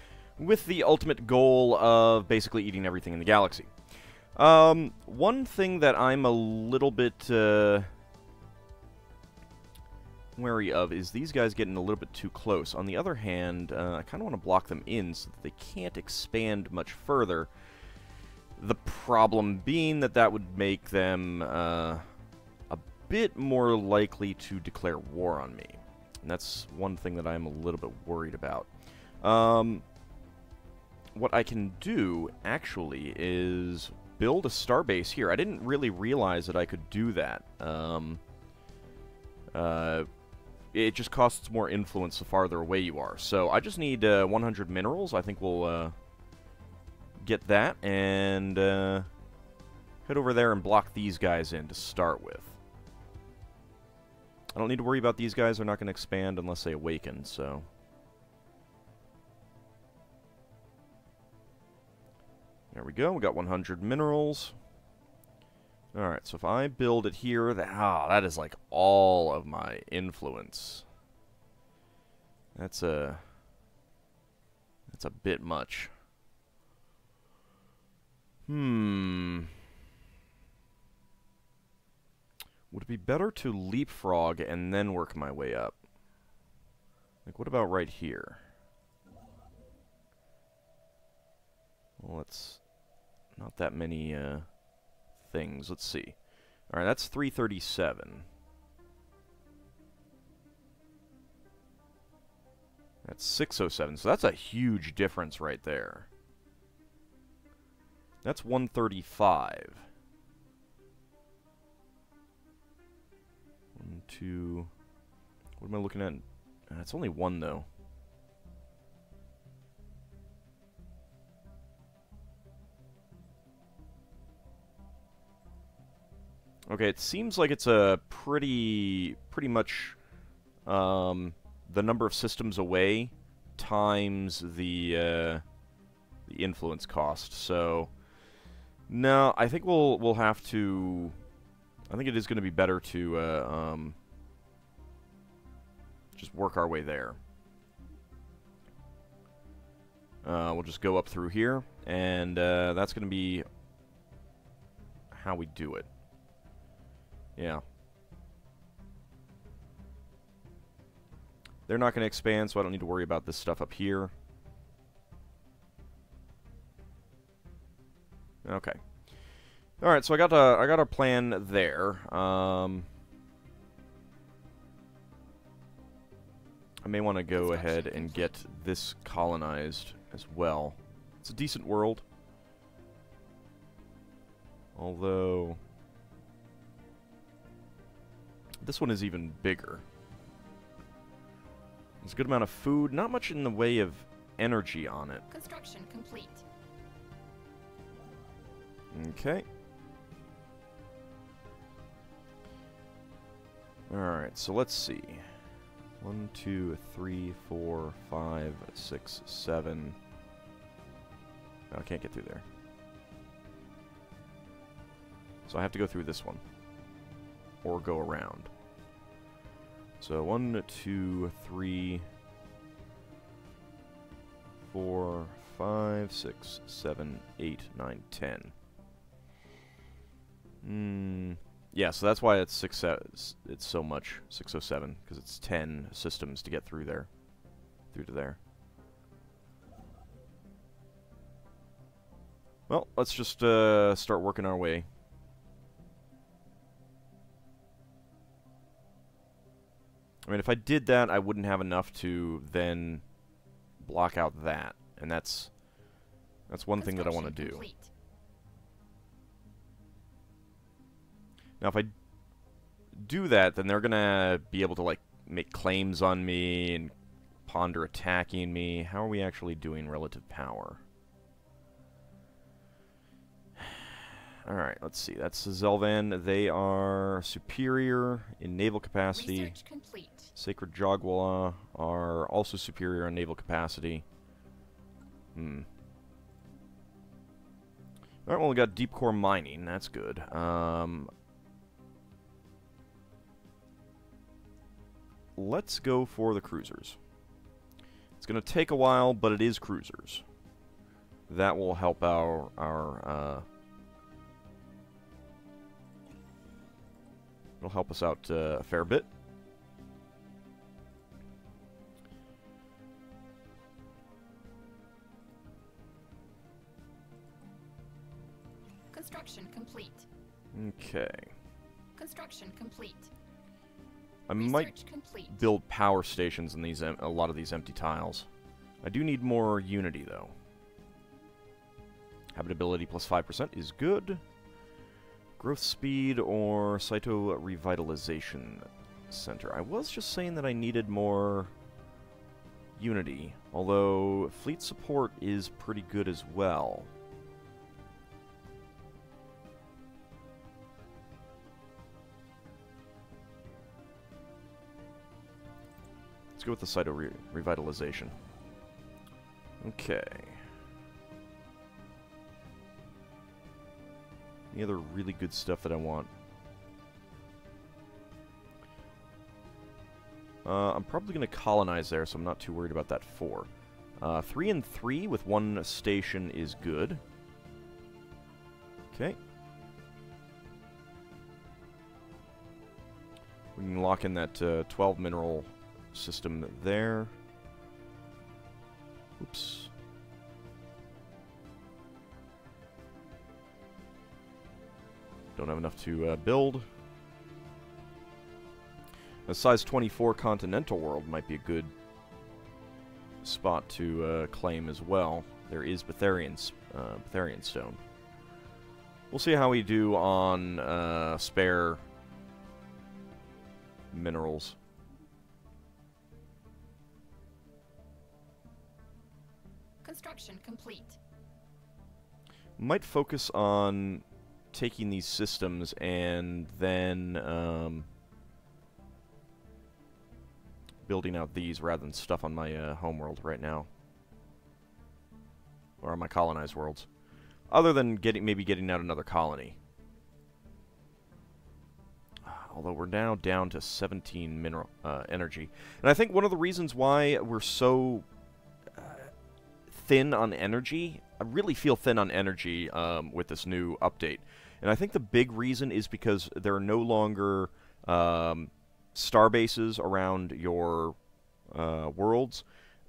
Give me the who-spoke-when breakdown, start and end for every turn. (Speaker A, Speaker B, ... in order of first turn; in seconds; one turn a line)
Speaker A: 0.4-3.7
Speaker A: 4.3-7.9
Speaker A: 10.3-17.5
Speaker A: 18.6-22.0
Speaker A: 22.7-29.8
Speaker A: 31.1-38.2
Speaker A: 39.5-40.1
Speaker A: 40.7-45.9
Speaker A: 47.2-49.1
Speaker A: 50.0-52.6
Speaker A: 54.5-57.6
Speaker A: 62.7-64.5
Speaker A: 65.9-70.8
Speaker A: 72.5-73.3
Speaker A: 74.9-75.9
Speaker A: 78.5-79.5
Speaker A: 82.7-85.8
Speaker A: 87.2-88.4
Speaker A: 92.0-92.6
Speaker A: 93.3-94.5
Speaker A: 95.2-96.2
Speaker A: 96.7-98.2
Speaker A: 103.0-106.1
Speaker A: 108.2-109.9
Speaker A: 113.8-114.7
Speaker A: 115.6-117.7
Speaker A: 126.7-130.0
Speaker A: 130.7-135.4
Speaker A: 136.2-137.9
Speaker A: 138.9-141.2
Speaker A: 141.9-143.9
Speaker A: 146.1-147.2
Speaker A: 150.2-153.4
Speaker A: 155.1-155.9
Speaker A: 157.4-157.6
Speaker A: 161.7-164.1
Speaker A: 168.4-168.8
Speaker A: 169.8-172.9
Speaker A: 176.8-182.0
Speaker B: 177.3-178.3
Speaker A: 184.7-185.6
Speaker A: 188.6-189.8
Speaker A: 192.0-195.2
Speaker B: 195.3-196.4
Speaker A: 198.9-199.4
Speaker A: 203.9-205.2
Speaker A: 206.0-209.9
Speaker A: 211.7-212.4
Speaker A: 215.5-216.4
Speaker A: 217.6-218.5
Speaker A: 220.0-222.1
Speaker A: 224.6-228.5
Speaker A: 230.6-237.1
Speaker A: 237.9-238.4
Speaker A: 242.7-244.8
Speaker A: 250.2-253.0
Speaker A: 253.8-255.5
Speaker A: 256.5-257.6
Speaker B: 256.8-257.9
Speaker A: 261.6-261.9
Speaker A: 262.9-266.9
Speaker A: 267.4-270.8
Speaker A: 273.6-279.5
Speaker B: 279.1-280.3
Speaker A: 280.3-284.0
Speaker A: 285.3-285.7
Speaker A: 288.2-291.1
Speaker A: 295.4-297.0
Speaker A: 298.2-300.2
Speaker A: 301.3-303.4
Speaker A: 307.6-309.1
Speaker B: 318.9-320.1
Speaker A: 320.5-321.3
Speaker B: 321.9-323.1
Speaker A: 324.3-324.7
Speaker B: 324.4-325.4
Speaker A: 325.3-328.3
Speaker A: 328.8-330.3
Speaker A: 332.3-334.2
Speaker A: 335.4-341.5
Speaker A: 342.8-346.9
Speaker A: 356.4-358.1
Speaker A: 359.6-360.4
Speaker A: 364.5-366.1
Speaker A: 370.4-377.0
Speaker A: 378.9-379.2
Speaker A: 383.5-387.1
Speaker A: 389.2-389.7
Speaker A: 395.4-396.7
Speaker A: 399.2-401.7
Speaker A: 403.2-407.8
Speaker A: 409.1-411.8
Speaker A: 413.9-414.6
Speaker B: 419.8-421.0
Speaker A: 422.6-427.9
Speaker A: 430.8-433.7
Speaker A: 435.8-436.9
Speaker A: 437.5-439.6
Speaker A: 442.2-448.1
Speaker A: 448.7-449.1
Speaker A: 449.7-461.0
Speaker A: 461.5-462.4